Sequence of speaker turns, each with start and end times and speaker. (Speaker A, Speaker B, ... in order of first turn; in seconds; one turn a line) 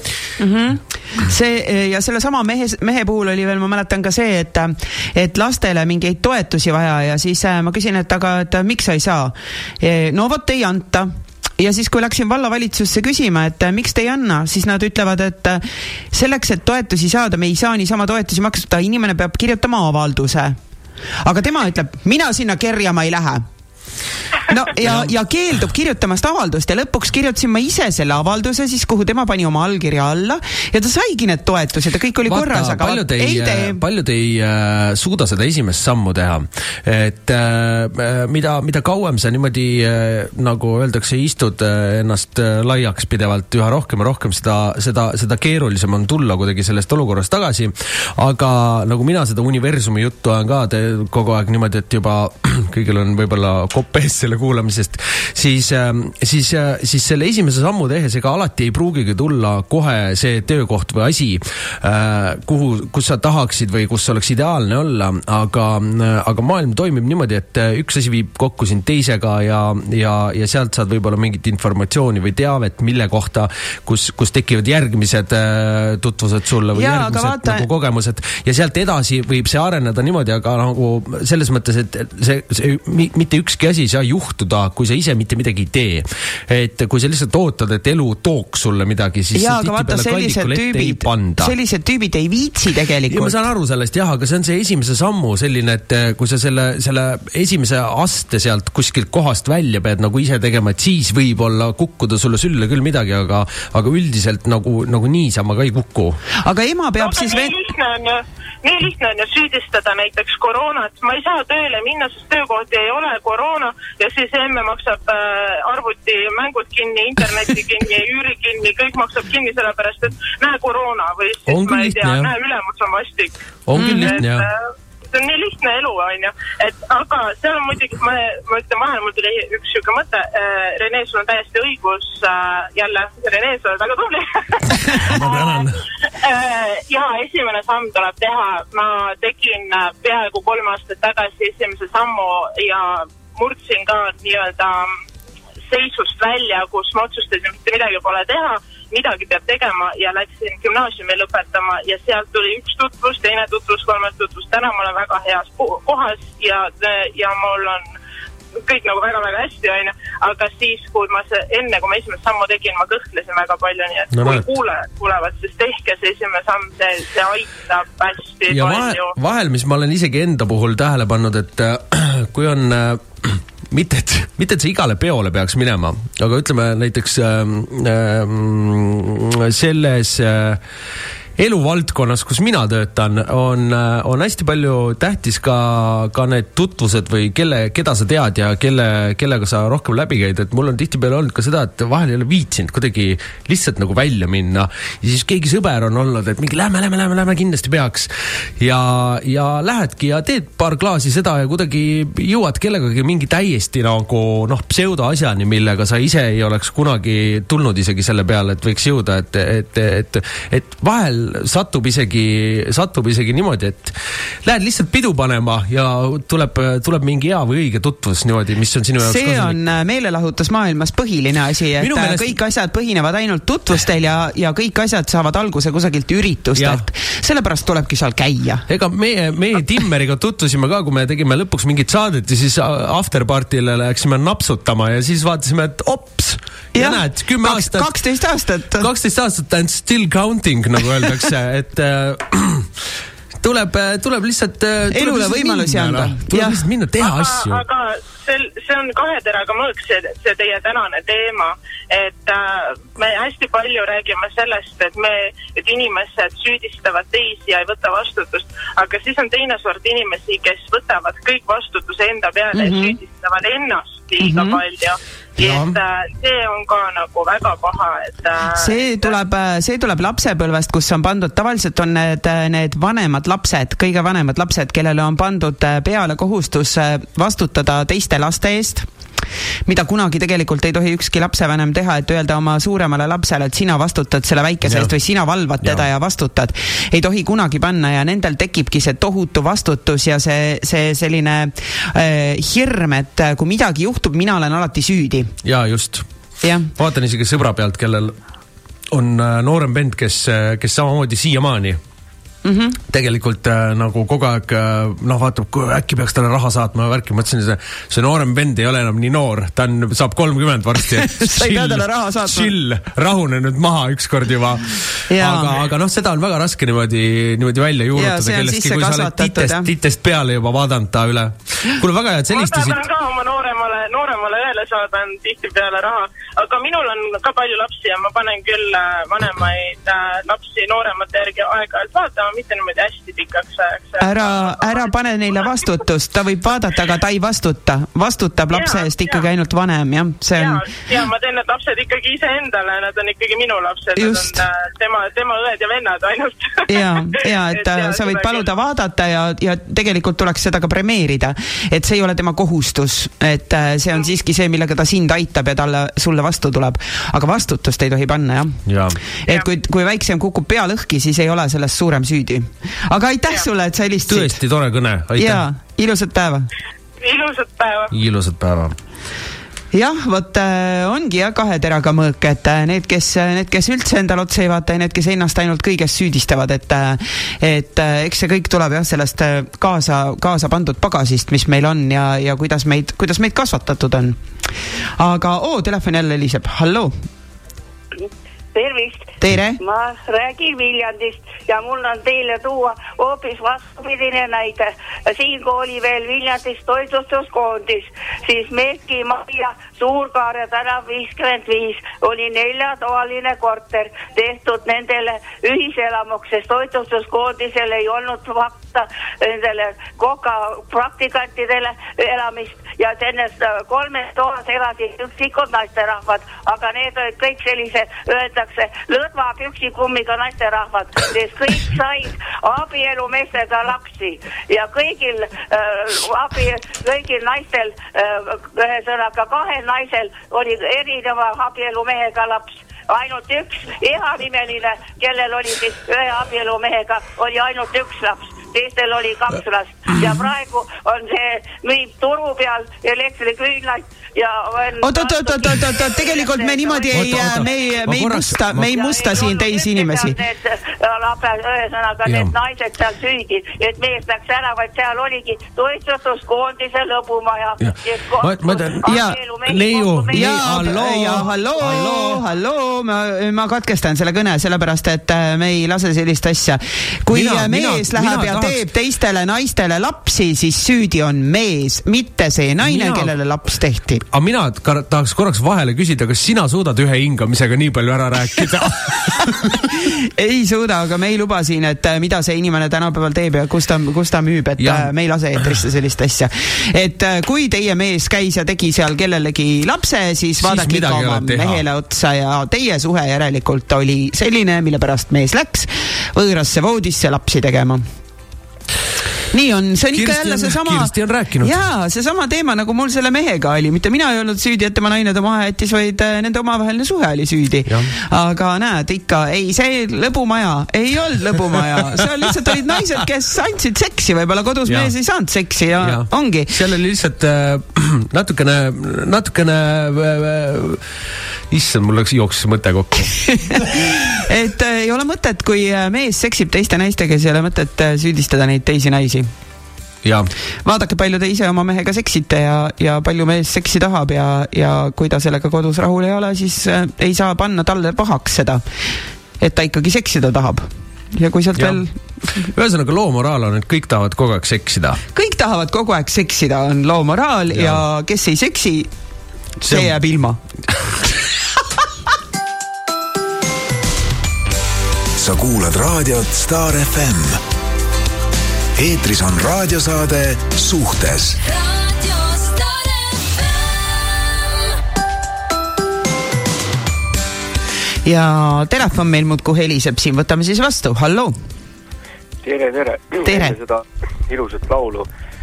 Speaker A: 0.4-20.6
Speaker A: 21.2-23.4
Speaker A: 24.4-33.8
Speaker B: 24.8-25.1
Speaker B: 32.2-91.5
Speaker A: 76.7-77.7
Speaker A: 89.3-93.4
Speaker B: 93.1-106.2
Speaker A: 106.4-107.5
Speaker C: 107.0-124.6
Speaker B: 121.5-122.3
Speaker B: 123.7-124.5
Speaker A: 123.8-124.2
Speaker C: 125.1-135.7
Speaker B: 134.9-135.8
Speaker C: 136.2-144.9
Speaker C: 145.7-157.9
Speaker C: 158.6-169.1
Speaker B: 164.1-164.5
Speaker B: 168.5-180.6
Speaker B: 181.4-219.6
Speaker A: 219.0-228.7
Speaker B: 221.8-222.4
Speaker B: 226.6-226.8
Speaker B: 228.7-237.9
Speaker A: 236.7-238.9
Speaker B: 238.8-242.8
Speaker B: 243.4-247.6
Speaker A: 244.9-246.6
Speaker C: 247.0-269.2
Speaker A: 262.5-263.0
Speaker A: 264.2-264.6
Speaker B: 265.4-265.8
Speaker A: 268.5-278.9
Speaker A: 279.7-295.3
Speaker B: 284.6-284.9
Speaker B: 295.4-296.1
Speaker A: 296.4-296.7
Speaker B: 296.7-298.2
Speaker B: 298.9-301.8
Speaker A: 302.4-302.8
Speaker B: 302.9-322.9
Speaker A: 311.0-312.5
Speaker A: 315.1-315.6
Speaker A: 318.0-319.7
Speaker C: 322.3-334.9
Speaker A: 334.0-340.6
Speaker C: 338.5-339.3
Speaker C: 340.4-348.5
Speaker A: 344.0-344.4
Speaker A: 346.7-358.6
Speaker B: 358.7-359.0
Speaker A: 359.2-364.4
Speaker B: 364.1-365.5
Speaker A: 365.2-366.5
Speaker C: 367.0-367.9
Speaker B: 367.9-368.8
Speaker A: 369.7-384.2
Speaker A: 385.0-386.9
Speaker D: 388.0-461.9
Speaker A: 389.2-389.6
Speaker A: 444.8-450.2
Speaker B: 446.9-448.9
Speaker B: 452.1-452.4
Speaker B: 457.6-462.2
Speaker A: 458.8-459.2
Speaker A: 460.1-474.0
Speaker B: 467.1-468.6
Speaker B: 472.6-473.1
Speaker B: 474.1-479.6
Speaker A: 479.7-497.8
Speaker B: 484.6-484.9
Speaker B: 490.4-491.6
Speaker A: 499.3-516.5
Speaker B: 499.9-501.6
Speaker B: 507.7-507.9
Speaker B: 514.7-514.9
Speaker B: 515.8-520.8
Speaker B: 521.5-523.8
Speaker A: 523.4-529.3
Speaker B: 530.0-530.3
Speaker A: 530.6-538.6
Speaker A: 539.4-541.9
Speaker B: 541.6-541.8
Speaker B: 542.4-545.0
Speaker A: 545.1-548.9
Speaker B: 547.5-547.8
Speaker A: 549.6-550.4
Speaker B: 549.7-549.9
Speaker E: 555.2-557.4
Speaker E: 558.8-561.5
Speaker A: 568.0-571.4
Speaker F: 572.4-575.1
Speaker A: 573.2-573.6